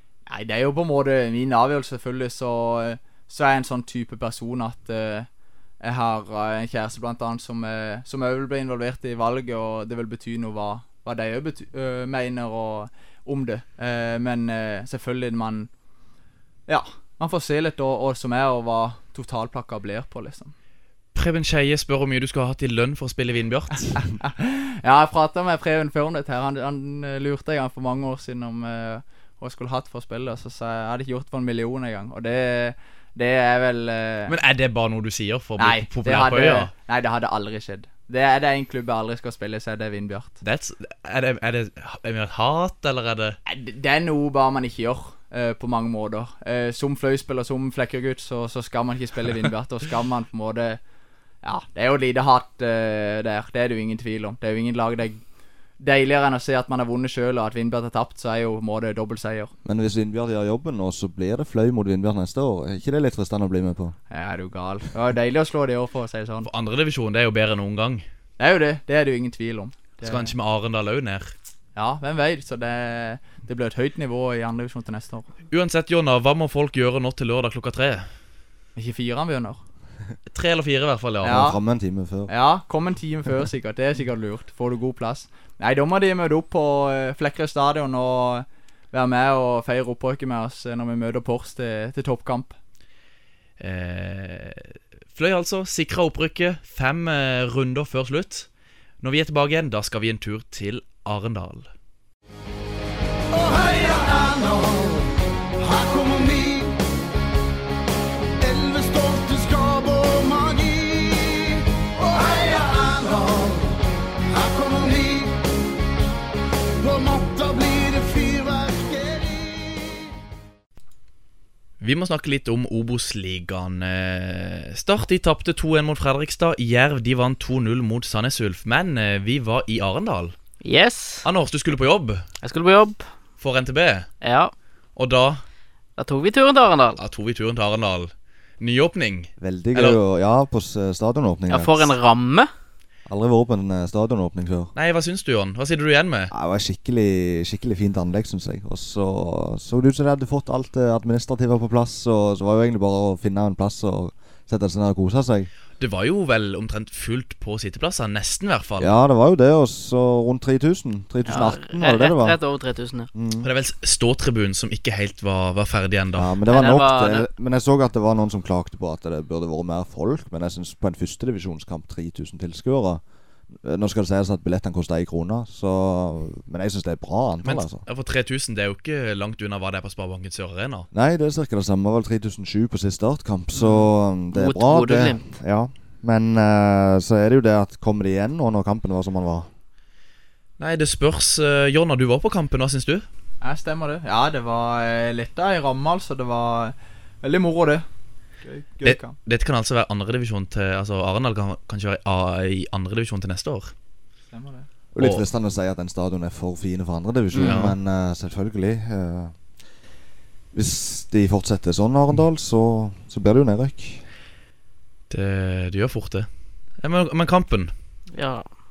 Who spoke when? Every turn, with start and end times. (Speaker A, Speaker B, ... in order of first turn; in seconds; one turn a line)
Speaker A: 0.3-5.3
Speaker A: 5.8-15.7
Speaker A: 16.7-20.5
Speaker B: 21.1-24.1
Speaker A: 24.0-34.3
Speaker B: 34.3-36.7
Speaker A: 35.6-40.4
Speaker B: 40.4-43.4
Speaker A: 43.5-50.8
Speaker A: 51.4-55.2
Speaker A: 55.8-59.5
Speaker C: 59.6-64.0
Speaker A: 64.1-66.5
Speaker B: 66.4-68.0
Speaker A: 68.4-70.3
Speaker B: 70.0-71.3
Speaker A: 71.8-75.3
Speaker B: 75.5-78.1
Speaker A: 78.8-79.6
Speaker B: 80.3-81.4
Speaker C: 81.2-82.3
Speaker A: 81.2-81.6
Speaker A: 82.3-92.6
Speaker B: 93.6-98.5
Speaker B: 99.0-101.7
Speaker D: 103.3-105.0
Speaker D: 105.6-106.8
Speaker D: 108.4-113.7
Speaker D: 114.3-115.3
Speaker D: 116.8-120.1
Speaker B: 121.8-130.3
Speaker E: 130.6-131.3
Speaker B: 131.2-132.2
Speaker E: 132.4-133.1
Speaker B: 133.4-134.1
Speaker E: 134.2-134.5
Speaker B: 135.0-135.4
Speaker E: 136.0-137.0
Speaker B: 137.0-140.0
Speaker C: 139.4-141.9
Speaker E: 141.5-142.5
Speaker C: 143.1-144.7
Speaker B: 144.8-146.3
Speaker C: 146.3-155.5
Speaker B: 155.8-159.0
Speaker C: 158.8-162.4
Speaker E: 161.3-163.1
Speaker C: 163.1-163.5
Speaker B: 163.4-166.4
Speaker C: 166.2-173.0
Speaker E: 166.5-167.3
Speaker C: 173.5-177.8
Speaker B: 177.4-180.9
Speaker C: 180.9-189.5
Speaker E: 184.3-185.4
Speaker B: 190.6-193.1
Speaker A: 193.4-197.8
Speaker A: 198.4-199.2
Speaker B: 198.8-203.7
Speaker A: 204.3-204.7
Speaker C: 204.9-209.4
Speaker B: 205.0-205.2
Speaker E: 207.3-207.7
Speaker B: 207.4-207.7
Speaker C: 210.5-214.1
Speaker B: 215.1-217.7
Speaker E: 218.1-218.5